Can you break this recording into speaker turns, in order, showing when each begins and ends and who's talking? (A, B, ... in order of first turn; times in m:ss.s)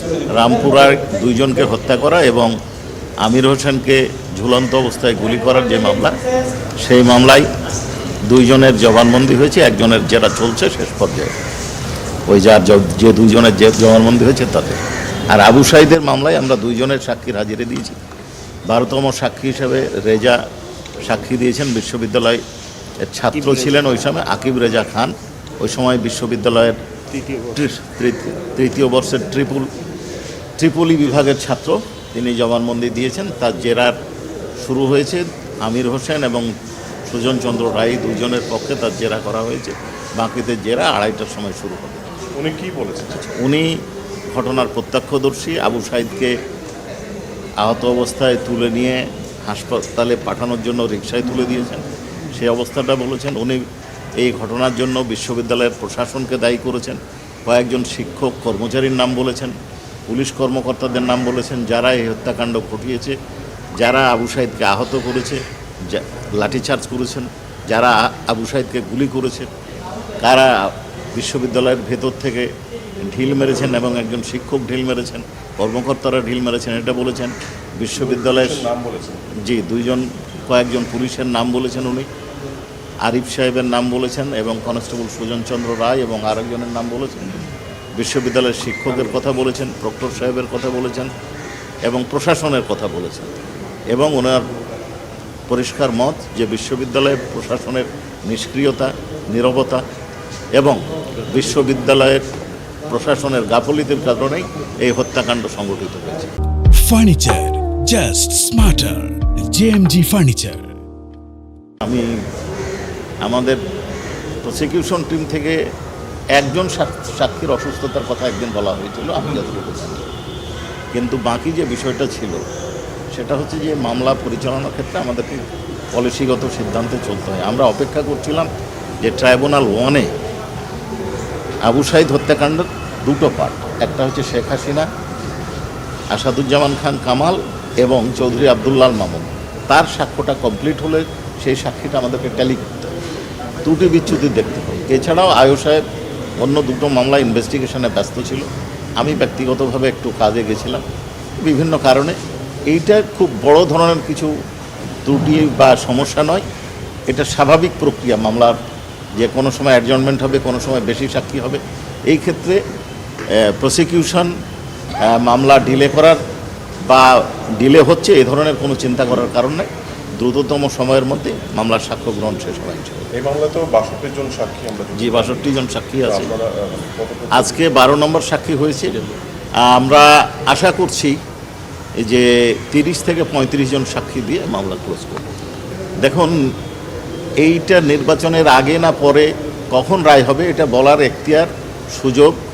0:00.3-0:02.5 A
0:03.2-0:06.2 A
0:06.8-0:07.5 A
0:08.3-0:11.4 A
0:12.3-0:18.0 A
0:18.7-0:20.4 A
0:21.0-0:22.4 A
0:23.0-0:26.8 A
0:27.4-0:29.7 A
0:30.6-0:34.0 A
0:34.6-0:36.5 A
0:37.1-0:42.2 A
0:42.3-0:43.2 B
0:43.0-0:43.8 A
0:44.3-0:46.3 A
0:47.6-0:53.6 A
0:54.2-0:59.6 A
1:00.1-1:03.2 A
1:03.8-1:09.5 A
1:10.2-1:12.5 A
1:13.0-1:18.7 A
1:18.0-1:19.3 B
1:19.4-1:22.1 A
1:23.0-1:31.1 A
1:31.8-1:33.4 A
1:33.9-1:34.5 A
1:35.5-1:39.8 A
1:40.6-1:42.2 A
1:42.9-1:46.3 A
1:46.7-1:50.7 C
1:51.8-1:52.2 A
1:53.2-1:53.6 A
1:54.4-1:55.6 A
1:56.4-2:00.1 A
2:00.9-2:02.4 A
2:03.1-2:08.5 A
2:09.0-2:10.1 A
2:11.7-2:14.9 A
2:16.1-2:23.0 A
2:23.6-2:25.8 A
2:26.4-2:28.5 A
2:29.0-2:30.8 A
2:31.4-2:34.3 A
2:35.0-2:36.4 A
2:37.1-2:38.6 A
2:39.2-2:42.6 A
2:43.4-2:44.3 A
2:45.0-2:46.2 A
2:46.9-2:53.1 A
2:53.2-2:57.7 B
2:55.0-2:56.3 A
2:57.3-2:59.1 A
2:59.6-3:01.2 A
3:02.0-3:05.3 A
3:06.0-3:06.4 A
3:07.4-3:12.4 A